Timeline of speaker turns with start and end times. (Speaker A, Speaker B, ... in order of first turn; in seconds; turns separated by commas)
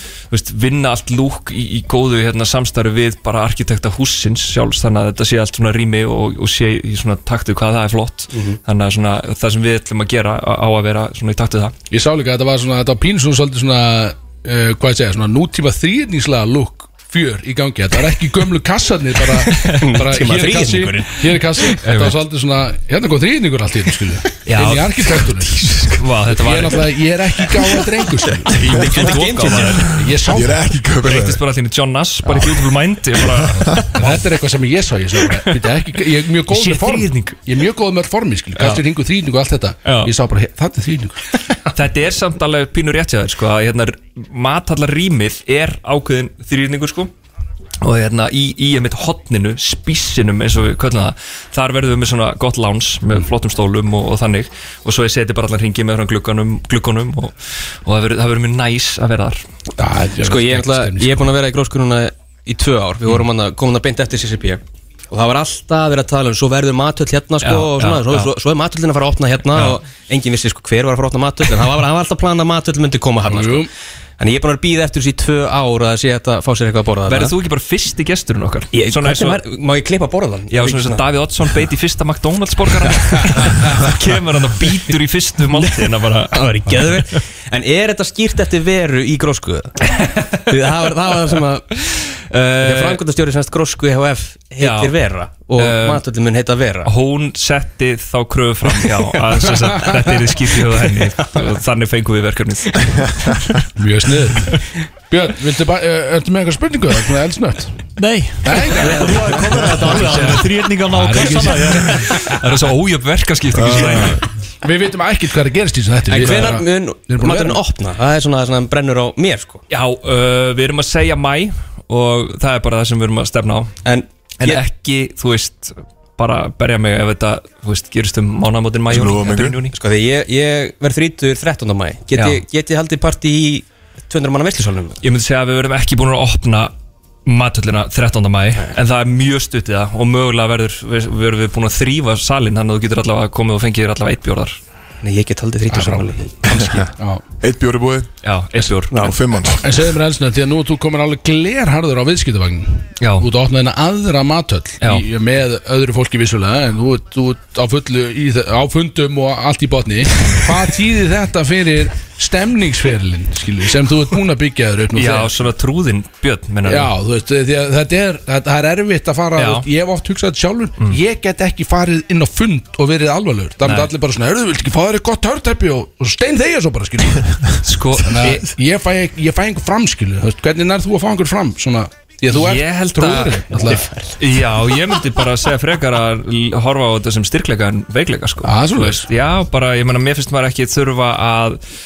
Speaker A: 0.3-11.7, Speaker B: 8.3-8.6, Speaker C: 11.9-30.7, Speaker A: 19.4-20.1, Speaker B: 19.7-21.3, Speaker A: 21.8-22.2, Speaker A: 24.4-27.0, Speaker A: 28.5-30.0, Speaker B: 28.6-29.8, Speaker D: 30.1-31.4, Speaker A: 31.0-34.2, Speaker D: 33.4-33.9, Speaker C: 33.9-41.2, Speaker A: 36.5-37.4, Speaker A: 38.6-38.8, Speaker A: 39.8-40.1, Speaker A: 41.7-47.1, Speaker A: 47.8-59.4, Speaker C: 59.8-61.3, Speaker B: 60.2-73.7, Speaker A: 67.4-68.3, Speaker A: 69.5-69.8, Speaker C: 73.2-73.7, Speaker B: 74.2-77.3, Speaker A: 77.1-79.4, Speaker B: 78.7-81.6, Speaker A: 80.5-87.0, Speaker B: 82.9-83.7, Speaker B: 85.5-89.8, Speaker A: 89.9-90.6, Speaker B: 90.3-91.7, Speaker A: 91.7-93.0, Speaker B: 92.6-96.9, Speaker A: 94.6-95.0, Speaker A: 95.5-96.0, Speaker A: 96.8-103.5, Speaker B: 98.8-101.5, Speaker C: 103.8-107.9, Speaker E: 108.0-112.1, Speaker C: 108.4-109.2, Speaker C: 109.9-112.0, Speaker A: 111.9-114.2, Speaker D: 113.5-114.2, Speaker C: 113.7-117.6, Speaker B: 116.1-119.6, Speaker A: 119.7-123.8, Speaker B: 123.8-124.6, Speaker A: 124.4-129.7, Speaker D: 128.9-129.6, Speaker B: 129.7-135.0, Speaker A: 132.1-132.4, Speaker A: 135.0-136.7, Speaker A: 137.2-144.6, Speaker B: 145.0-146.9, Speaker C: 145.7-147.2, Speaker D: 147.4-148.1, Speaker A: 148.2-149.0, Speaker B: 148.9-149.2, Speaker D: 148.9-149.7, Speaker C: 149.6-165.3, Speaker A: 153.0-153.3, Speaker A: 164.9-166.9, Speaker C: 166.6-183.9, Speaker A: 169.4-169.7, Speaker A: 173.6-173.9, Speaker A: 177.6-178.5, Speaker A: 182.3-183.4, Speaker B: 183.6-184.2, Speaker A: 184.2-191.6, Speaker C: 188.4-189.1